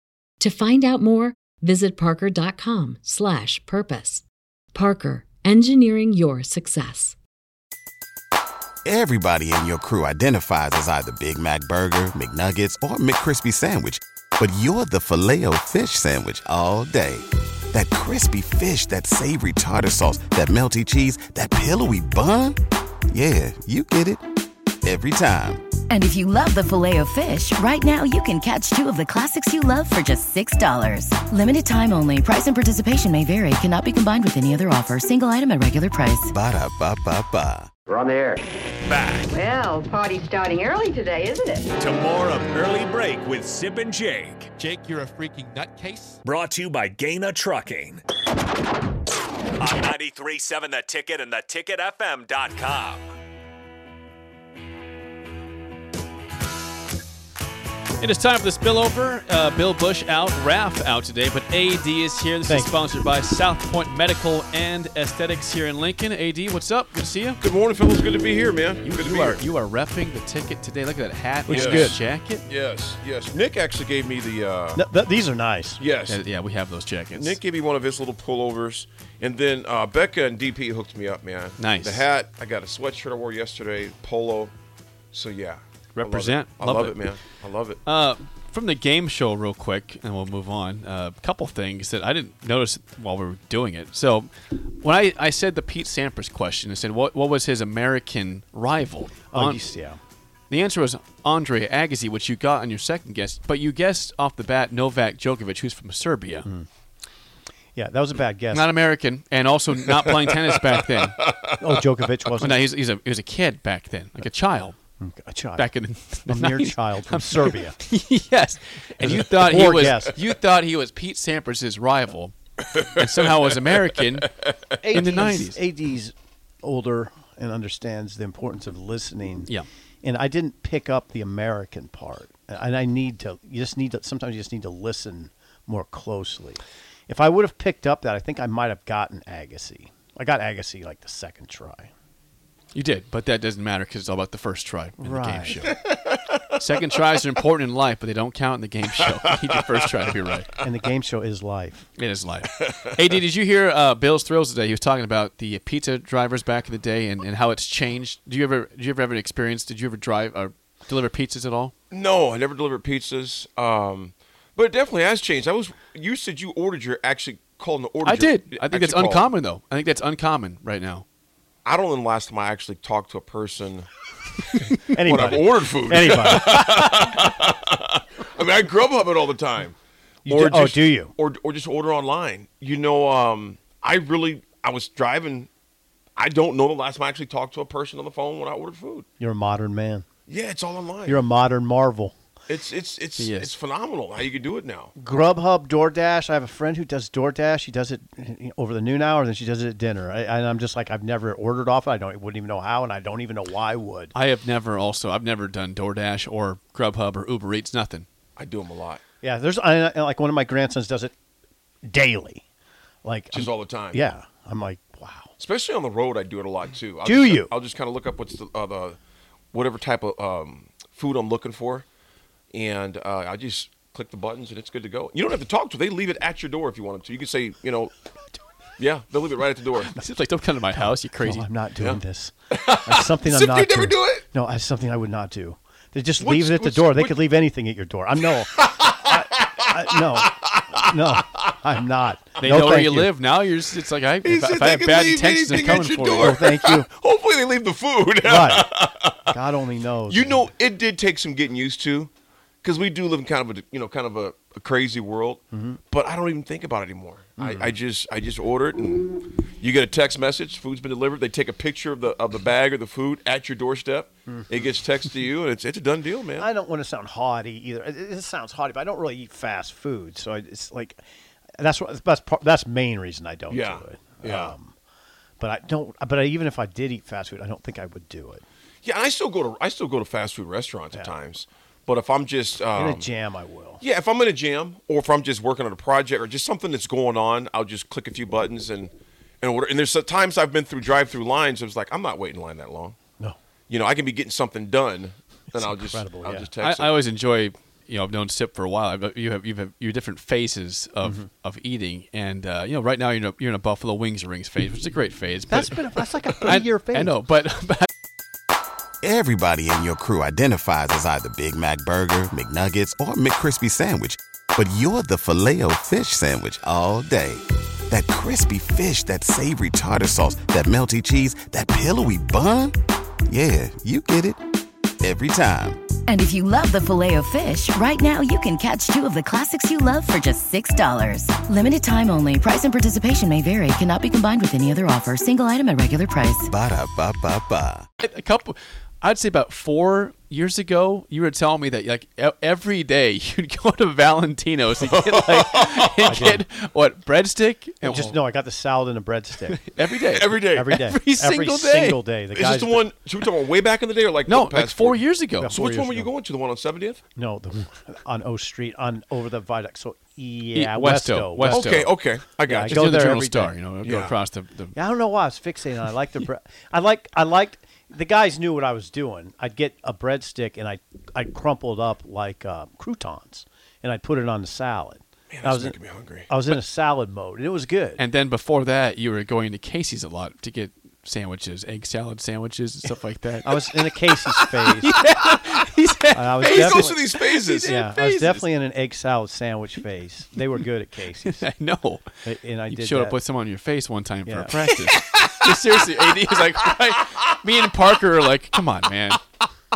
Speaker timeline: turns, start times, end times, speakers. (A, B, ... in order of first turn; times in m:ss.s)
0:00.4-0:07.2 A
0:08.8-0:22.6 B
0:23.1-0:24.2 B
0:24.8-0:25.7 B
0:25.9-0:36.3 C
0:36.3-0:37.7 B
0:37.9-0:39.3 D
0:39.3-0:41.7 E
0:41.8-0:44.6 D
0:44.6-0:46.2 F
0:46.2-0:48.0 D
0:49.6-0:53.1 D
0:58.0-1:07.4 F
1:02.5-1:02.7 G
1:07.4-1:09.4 H
1:08.8-1:12.5 F
1:11.5-1:12.0 G
1:11.5-1:14.8 H
1:14.8-1:15.8 G
1:15.8-1:16.2 H
1:16.0-1:17.4 F
1:17.1-1:24.5 H
1:21.6-1:22.0 F
1:25.1-1:27.8 H
1:26.0-1:27.1 F
1:27.8-1:39.6 F
1:39.3-1:40.0 G
1:40.5-1:46.5 F
1:47.8-1:48.7 G
1:48.5-1:51.2 F
1:51.2-1:51.7 H
1:51.6-1:52.6 G
1:52.4-1:54.8 F
1:55.0-1:55.7 G
1:55.6-2:04.4 F
1:56.3-1:57.8 G
1:59.0-2:00.2 G
2:04.5-2:04.8 H
2:04.8-2:21.9 G
2:04.9-2:05.6 F
2:22.7-2:25.8 F
2:25.0-2:25.7 G
2:25.7-2:26.4 H
2:26.6-2:30.5 F
2:29.1-2:29.3 H
2:30.6-2:31.9 G
2:32.0-2:41.7 F
2:32.6-2:32.9 H
2:41.9-2:49.3 H
2:48.0-2:51.0 F
2:51.6-2:53.9 H
2:54.6-3:05.5 H
2:54.9-2:56.6 G
3:00.3-3:01.1 G
3:06.2-3:09.1 H
3:09.2-3:10.1 G
3:10.3-3:11.3 H
3:11.0-3:12.1 G
3:12.5-3:14.9 H
3:13.2-3:13.5 F
3:15.0-3:24.1 G
3:24.2-3:28.1 F
3:28.4-3:29.0 H
3:29.2-3:31.1 G
3:31.8-3:32.4 G
3:33.0-3:35.3 G
3:33.3-3:34.1 H
3:35.4-3:39.0 H
3:37.0-3:37.6 G
3:39.5-3:41.9 H
3:42.5-3:47.9 H
3:48.8-3:50.0 H
3:50.0-3:51.5 F
3:50.7-4:03.1 G
3:51.8-3:54.3 H
3:56.2-3:57.2 H
3:58.3-4:01.5 H
4:02.4-4:06.5 F
4:04.2-4:09.4 H
4:05.5-4:06.9 G
4:08.2-4:08.7 G
4:09.3-4:10.5 G
4:10.1-4:12.1 H
4:12.6-4:26.5 H
4:15.5-4:15.8 G
4:17.4-4:17.8 G
4:24.3-4:24.8 G
4:26.4-4:31.0 G
4:31.6-4:34.7 G
4:33.5-4:34.6 H
4:35.4-4:38.4 G
4:38.8-4:43.1 H
4:40.9-4:41.2 G
4:42.7-4:43.8 G
4:43.8-4:53.0 H
4:53.7-4:57.0 H
4:55.5-4:56.5 G
4:56.6-5:07.9 F
5:01.0-5:01.3 G
5:05.5-5:07.2 G
5:09.0-5:22.8 B
5:23.3-5:24.4 B
5:25.0-5:25.8 B
5:26.1-5:36.5 C
5:36.5-5:37.9 B
5:38.0-5:48.2 F
5:44.8-5:46.1 H
5:46.1-5:46.4 G
5:47.8-5:49.6 G
5:49.5-5:52.1 F
5:50.0-5:50.7 H
5:50.5-5:52.9 G
5:52.3-5:57.0 H
5:54.2-5:55.6 F
5:55.4-5:56.1 G
5:57.2-6:01.8 G
6:00.5-6:02.0 F
6:01.4-6:02.9 H
6:02.4-6:03.7 G
6:02.6-6:04.7 F
6:03.8-6:04.2 H
6:04.7-6:18.0 G
6:15.3-6:16.3 H
6:18.0-6:28.4 F
6:23.4-6:24.9 G
6:26.1-6:31.4 G
6:26.4-6:27.8 H
6:31.2-6:32.1 F
6:32.2-6:33.2 G
6:32.7-6:39.2 F
6:34.3-6:34.6 G
6:34.7-6:35.5 H